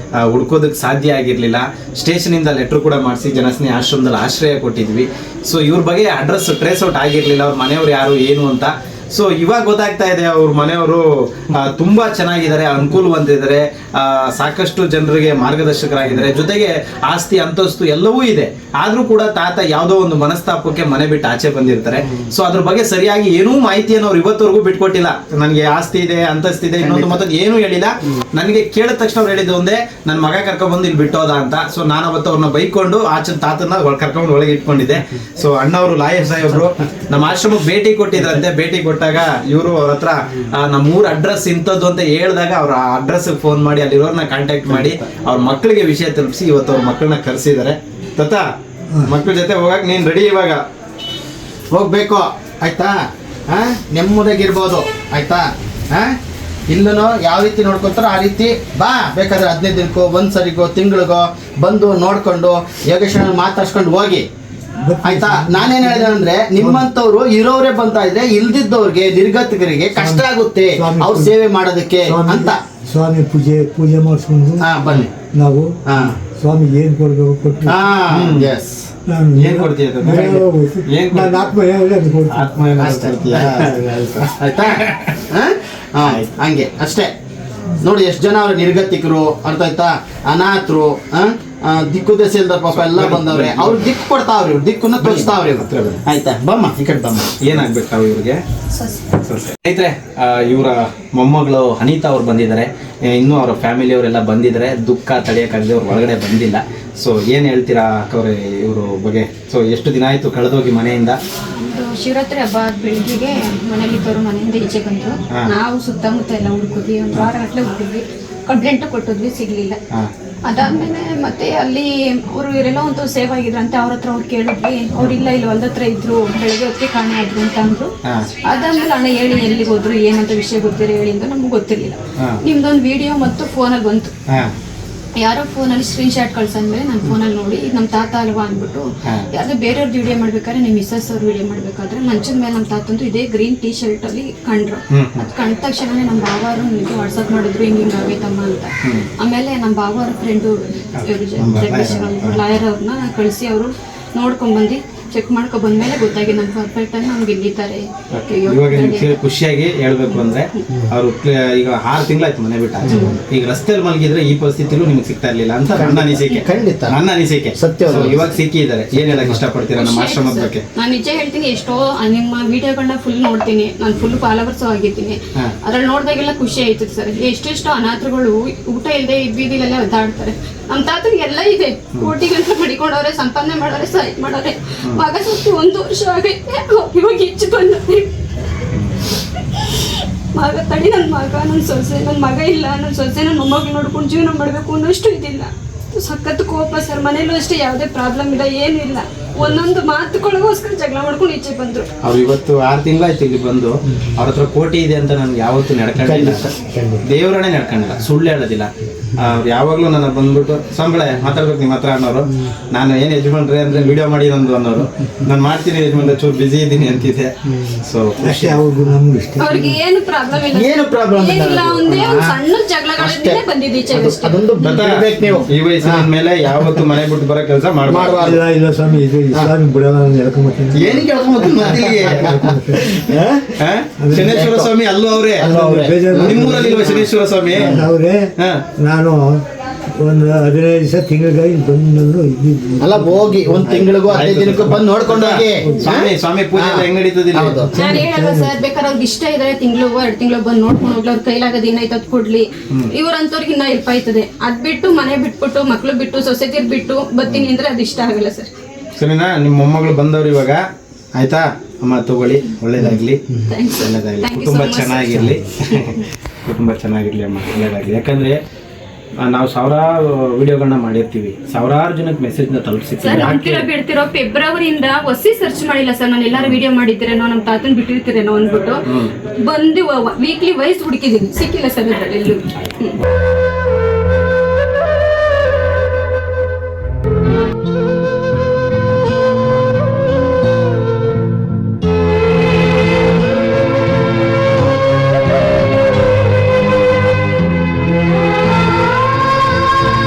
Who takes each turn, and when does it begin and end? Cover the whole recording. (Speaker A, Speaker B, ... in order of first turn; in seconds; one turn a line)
Speaker A: 0.2-48.4
Speaker B: 22.0-22.3
Speaker B: 26.8-27.2
Speaker A: 49.0-50.6
Speaker B: 51.7-52.9
Speaker B: 53.5-56.1
Speaker B: 56.7-64.3
Speaker C: 64.8-66.8
Speaker B: 65.0-72.6
Speaker C: 70.0-71.3
Speaker C: 72.0-74.6
Speaker B: 74.6-75.1
Speaker C: 75.3-77.8
Speaker B: 75.8-76.2
Speaker B: 77.7-78.9
Speaker A: 78.1-78.5
Speaker C: 79.1-83.0
Speaker A: 79.4-81.5
Speaker A: 82.3-85.2
Speaker B: 82.8-87.1
Speaker A: 86.0-86.3
Speaker B: 87.8-97.6
Speaker A: 92.8-93.9
Speaker A: 95.0-96.0
Speaker A: 97.4-98.4
Speaker D: 98.7-99.1
Speaker A: 99.2-111.2
Speaker D: 111.6-119.8
Speaker D: 120.5-134.1
Speaker D: 135.2-159.1
Speaker A: 144.9-145.3
Speaker A: 151.0-152.4
Speaker A: 158.1-170.6
Speaker D: 160.1-160.7
Speaker D: 162.8-163.1
Speaker B: 165.7-166.9
Speaker D: 166.2-166.5
Speaker B: 167.6-168.3
Speaker D: 169.8-188.1
Speaker A: 188.7-189.0
Speaker D: 189.2-201.9
Speaker A: 202.0-206.4
Speaker B: 206.0-207.0
Speaker A: 207.0-218.6
Speaker C: 218.2-219.7
Speaker D: 219.4-224.5
Speaker B: 220.5-222.3
Speaker B: 223.0-226.8
Speaker A: 224.6-228.4
Speaker B: 227.9-228.3
Speaker C: 228.0-233.0
Speaker B: 230.7-233.5
Speaker A: 231.7-232.2
Speaker A: 233.6-235.5
Speaker C: 234.0-234.5
Speaker B: 234.1-234.7
Speaker C: 235.4-236.9
Speaker B: 235.4-237.1
Speaker A: 236.1-237.8
Speaker C: 237.5-239.4
Speaker B: 237.6-237.8
Speaker A: 238.4-238.6
Speaker C: 240.0-244.0
Speaker B: 242.8-247.7
Speaker A: 243.7-247.7
Speaker C: 245.6-245.9
Speaker C: 247.7-248.5
Speaker D: 247.7-258.5
Speaker A: 258.9-260.6
Speaker A: 261.1-263.2
Speaker D: 263.5-266.0
Speaker A: 263.8-268.4
Speaker A: 269.2-273.7
Speaker D: 273.0-278.8
Speaker D: 279.4-283.0